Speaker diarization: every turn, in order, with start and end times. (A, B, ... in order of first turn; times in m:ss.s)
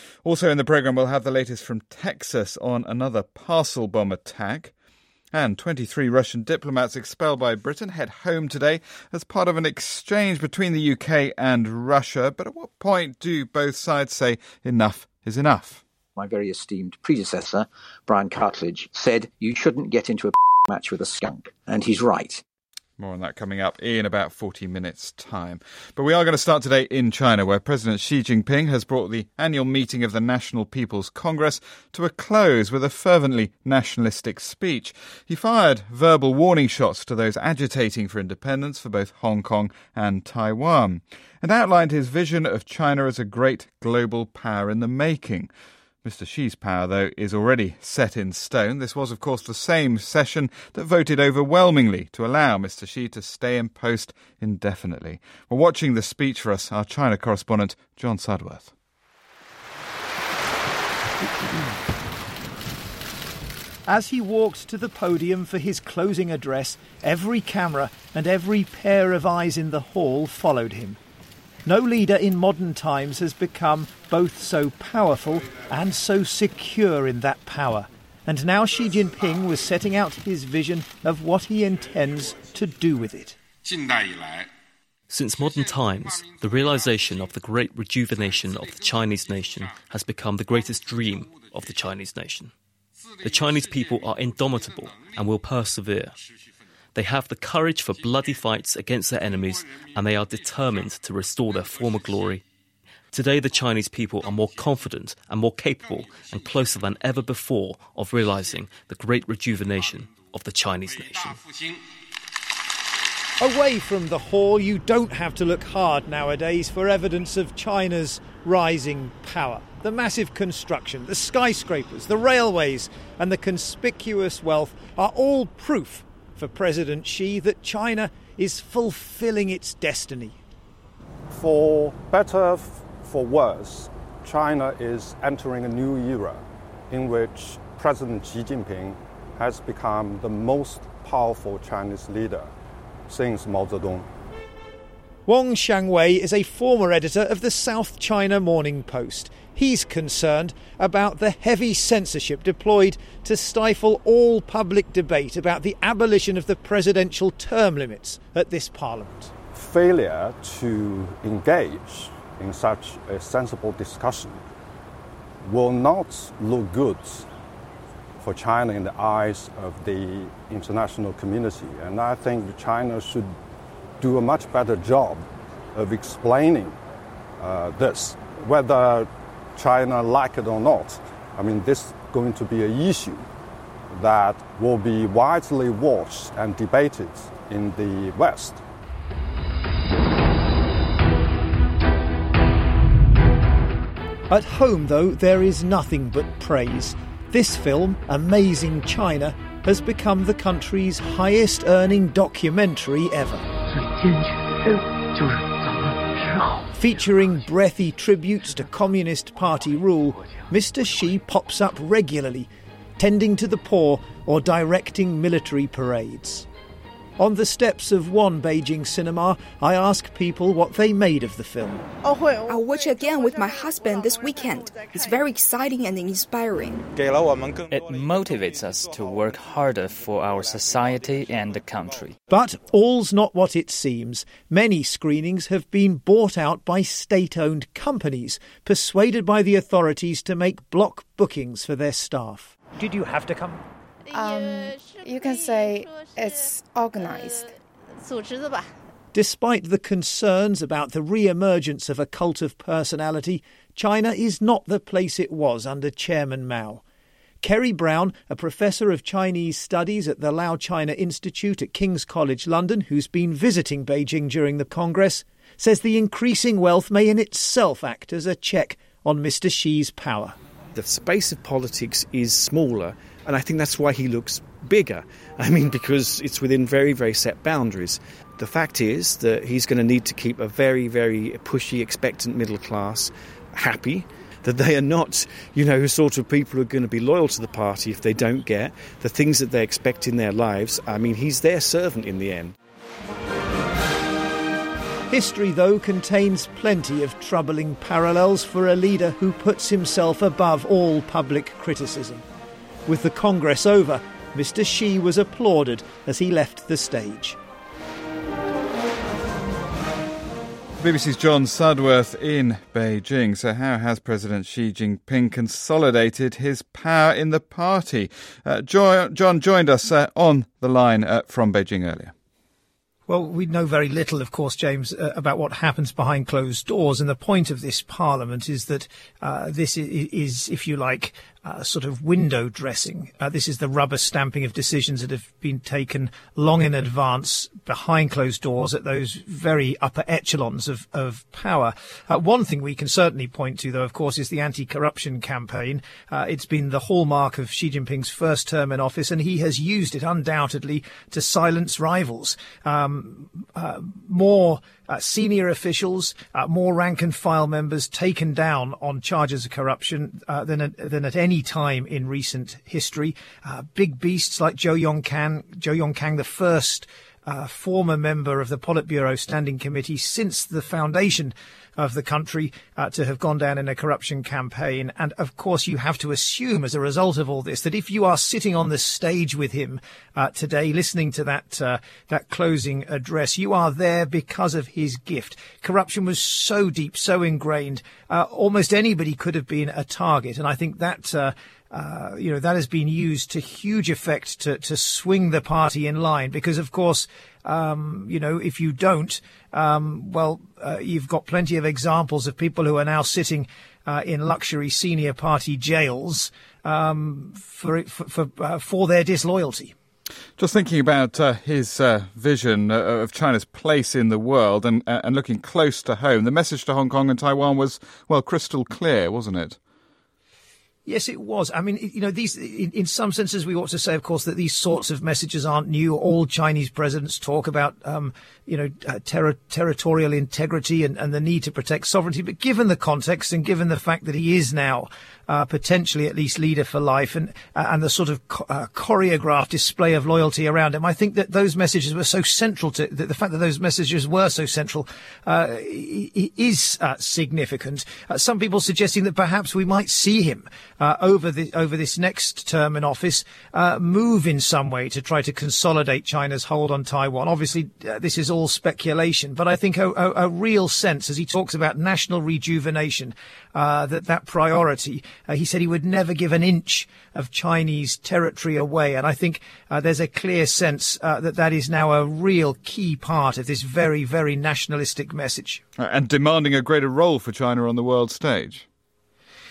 0:00.2-0:04.7 A
0:05.3-0:15.8 A
0:16.2-0:22.4 B
0:23.0-0:45.5 A
0:46.0-0:58.7 A
1:03.9-1:11.0 C
1:11.7-1:23.4 C
1:25.1-1:32.5 D
1:33.2-1:36.2 D
1:37.0-1:42.4 D
1:43.1-1:51.4 D
1:53.4-2:10.4 C
2:11.3-2:22.5 E
2:23.1-2:24.1 E
2:25.3-2:39.3 C
2:39.5-2:44.4 E
2:45.4-2:47.3 E
2:48.2-2:53.3 E
2:54.0-2:55.2 E
2:55.8-2:56.8 E
2:57.4-3:03.2 E
3:03.9-3:08.6 E
3:14.3-3:23.4 C
3:26.8-3:36.5 C
3:37.2-3:41.9 C
3:42.5-3:46.8 F
3:47.7-3:52.2 G
3:52.3-4:03.6 C
4:04.1-4:08.7 H
4:09.1-4:16.8 C
4:17.4-4:30.4 C
4:30.8-4:52.6 I
4:55.1-5:02.2 C
5:02.9-5:07.4 C
5:10.8-5:22.1 A
5:23.1-6:49.7 C
6:50.4-6:59.6 A
7:00.9-7:55.6 C
7:55.8-7:58.6 A